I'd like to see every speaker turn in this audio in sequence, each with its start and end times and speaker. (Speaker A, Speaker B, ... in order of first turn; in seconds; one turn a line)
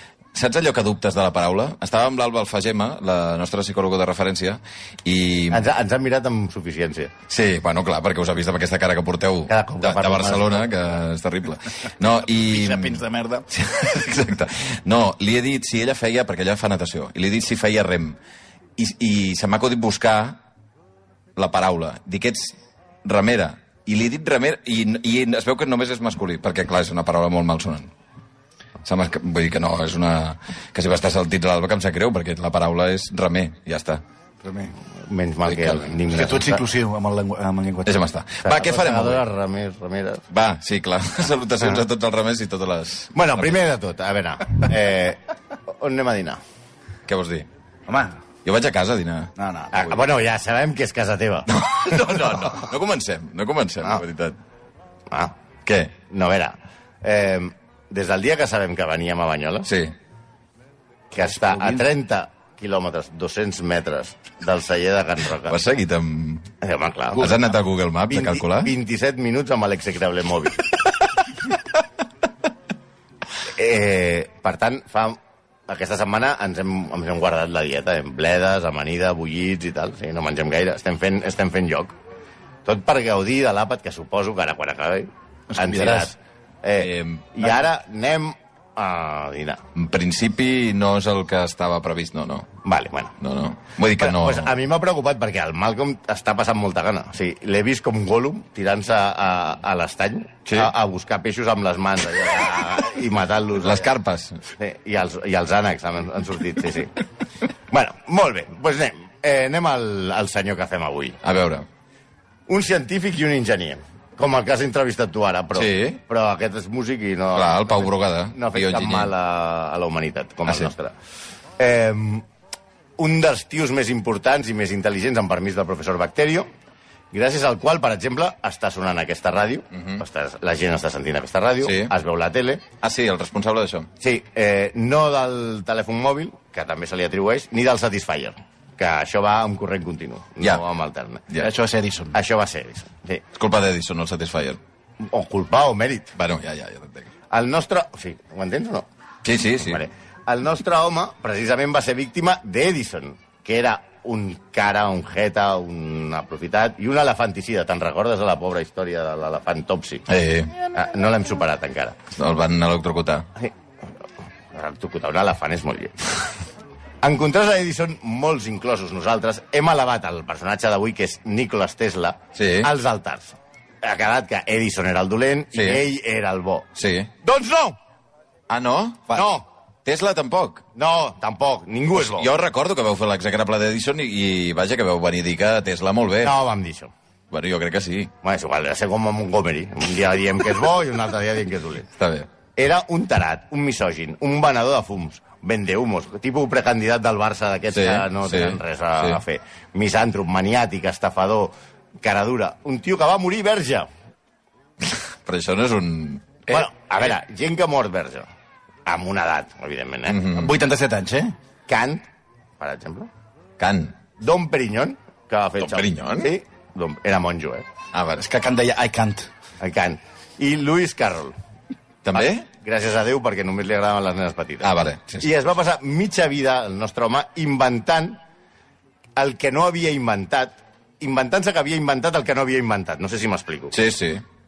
Speaker A: 0.3-5.7
Speaker B: 5.5-7.1
Speaker A: 7.3-18.2
Speaker B: 9.5-10.7
Speaker C: 12.2-13.5
Speaker A: 18.8-20.4
Speaker A: 21.4-27.9
Speaker A: 28.9-34.0
Speaker C: 34.4-34.7
Speaker B: 35.0-36.6
Speaker A: 35.5-35.9
Speaker C: 36.1-38.0
Speaker A: 37.9-39.2
Speaker B: 38.4-40.2
Speaker A: 40.3-43.6
Speaker B: 43.1-46.4
Speaker A: 47.1-47.5
Speaker C: 47.9-48.2
Speaker A: 48.5-49.3
Speaker C: 49.4-50.0
Speaker B: 49.7-51.5
Speaker A: 51.5-54.4
Speaker A: 55.7-56.0
Speaker B: 56.1-59.7
Speaker A: 59.7-59.9
Speaker C: 61.1-61.8
Speaker B: 61.1-65.6
Speaker A: 65.5-66.5
Speaker B: 66.6-67.5
Speaker A: 67.2-68.7
Speaker B: 68.1-70.6
Speaker B: 73.4-82.0
Speaker B: 82.7-89.6
Speaker C: 85.5-86.1
Speaker A: 86.8-87.4
Speaker A: 89.8-92.5
Speaker B: 92.6-93.2
Speaker A: 93.2-94.5
Speaker B: 94.0-103.9
Speaker A: 103.6-104.4
Speaker B: 104.6-107.0
Speaker B: 107.7-111.2
Speaker A: 111.2-111.7
Speaker B: 112.5-121.0
Speaker A: 115.5-116.0
Speaker A: 117.3-119.1
Speaker B: 121.6-122.3
Speaker B: 123.0-126.5
Speaker B: 127.1-132.7
Speaker A: 129.7-130.0
Speaker A: 131.6-131.9
Speaker A: 132.8-133.9
Speaker B: 134.0-141.3
Speaker C: 141.4-142.2
Speaker B: 142.1-143.2
Speaker A: 143.3-144.6
Speaker B: 145.0-146.2
Speaker A: 146.2-147.1
Speaker B: 147.3-148.9
Speaker A: 149.2-149.8
Speaker B: 149.6-160.1
Speaker A: 160.1-160.5
Speaker B: 160.7-162.0
Speaker A: 162.2-163.2
Speaker B: 164.5-166.3
Speaker B: 167.0-176.7
Speaker A: 172.3-172.7
Speaker A: 175.5-175.8
Speaker A: 176.8-177.1
Speaker B: 177.2-177.8
Speaker A: 178.5-179.3
Speaker B: 179.1-179.4
Speaker A: 179.8-180.6
Speaker B: 180.8-182.3
Speaker A: 181.9-186.4
Speaker B: 186.2-186.9
Speaker A: 187.3-188.1
Speaker B: 188.2-191.9
Speaker A: 192.0-192.3
Speaker B: 192.6-203.9
Speaker A: 197.7-199.2
Speaker A: 205.3-206.7
Speaker B: 206.5-208.3
Speaker B: 208.9-210.3
Speaker A: 210.1-210.6
Speaker C: 210.3-211.3
Speaker B: 211.7-212.1
Speaker B: 212.6-213.1
Speaker A: 213.6-213.9
Speaker B: 214.2-217.7
Speaker A: 215.6-216.3
Speaker A: 217.9-218.2
Speaker C: 218.2-219.3
Speaker B: 219.6-221.4
Speaker A: 222.1-222.5
Speaker B: 222.1-228.2
Speaker A: 224.6-225.3
Speaker B: 229.2-233.8
Speaker A: 233.7-234.2